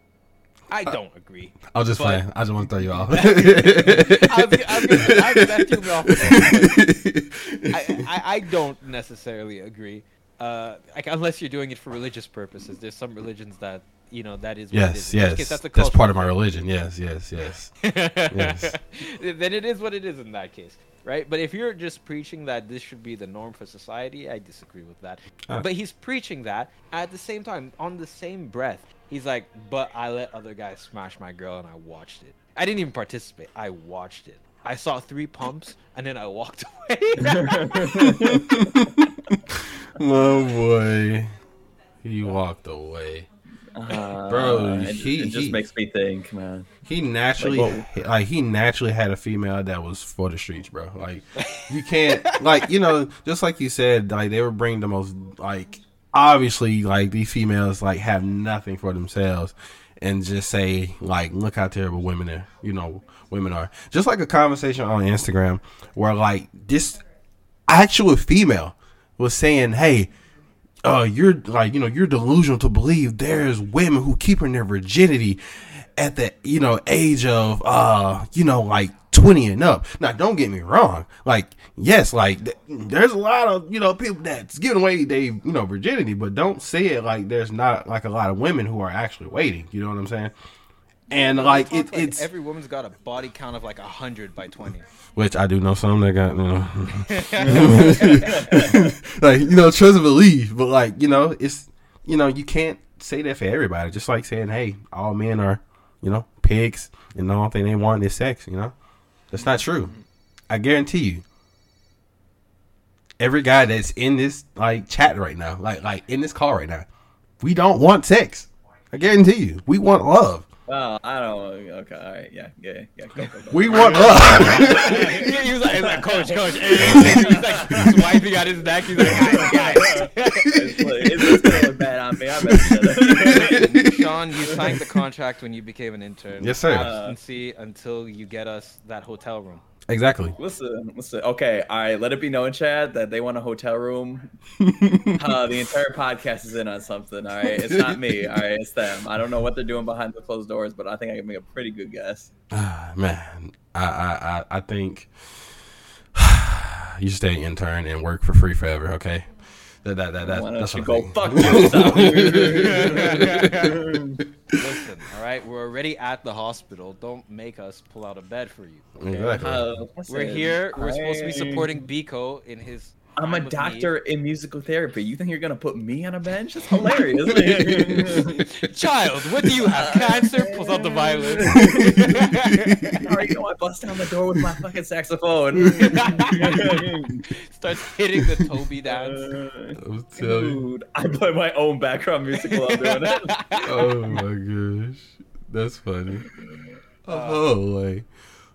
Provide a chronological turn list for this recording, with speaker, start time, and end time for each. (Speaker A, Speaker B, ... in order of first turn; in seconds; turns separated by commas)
Speaker A: 0.7-2.3, Speaker B: 1.7-8.1, Speaker A: 3.1-6.9, Speaker A: 7.7-16.4, Speaker B: 14.7-17.7, Speaker A: 17.8-37.8, Speaker B: 18.3-18.8, Speaker C: 37.2-38.7, Speaker B: 38.2-41.4, Speaker B: 42.0-43.3, Speaker C: 43.8-46.7, Speaker B: 44.2-45.6, Speaker B: 46.9-67.0, Speaker C: 47.4-47.9, Speaker A: 51.4-51.7, Speaker A: 52.2-52.6, Speaker B: 67.7-70.1, Speaker B: 70.8-90.3, Speaker B: 91.1-92.3, Speaker A: 91.1-94.8, Speaker B: 95.2-108.7, Speaker A: 97.2-98.4, Speaker C: 97.5-97.7, Speaker C: 98.3-98.8, Speaker B: 109.3-110.0, Speaker B: 110.5-111.2, Speaker B: 113.2-116.9, Speaker B: 117.4-120.5, Speaker C: 120.7-128.0, Speaker B: 123.5-125.1, Speaker A: 124.2-130.6, Speaker B: 126.8-127.3, Speaker C: 129.0-133.7, Speaker B: 131.3-131.7, Speaker B: 132.4-134.6, Speaker A: 133.1-139.6, Speaker B: 136.4-137.0, Speaker C: 136.8-137.2, Speaker B: 139.9-140.4, Speaker C: 140.4-144.3, Speaker B: 144.7-145.2, Speaker C: 145.1-152.3, Speaker B: 147.5-148.0, Speaker B: 152.5-155.1, Speaker B: 156.2-163.7, Speaker C: 160.2-164.2, Speaker A: 162.3-163.8, Speaker A: 164.6-169.4, Speaker B: 169.0-169.7, Speaker C: 169.4-171.7, Speaker A: 170.1-173.9, Speaker C: 173.2-178.4, Speaker A: 178.0-182.9, Speaker C: 179.6-182.2, Speaker B: 181.6-182.9, Speaker C: 183.0-187.1, Speaker A: 185.9-186.4, Speaker A: 187.3-189.3, Speaker C: 188.9-193.3, Speaker B: 189.8-190.7, Speaker A: 192.8-193.9, Speaker B: 193.6-196.3, Speaker C: 196.4-196.7, Speaker B: 197.0-198.1, Speaker A: 197.1-197.4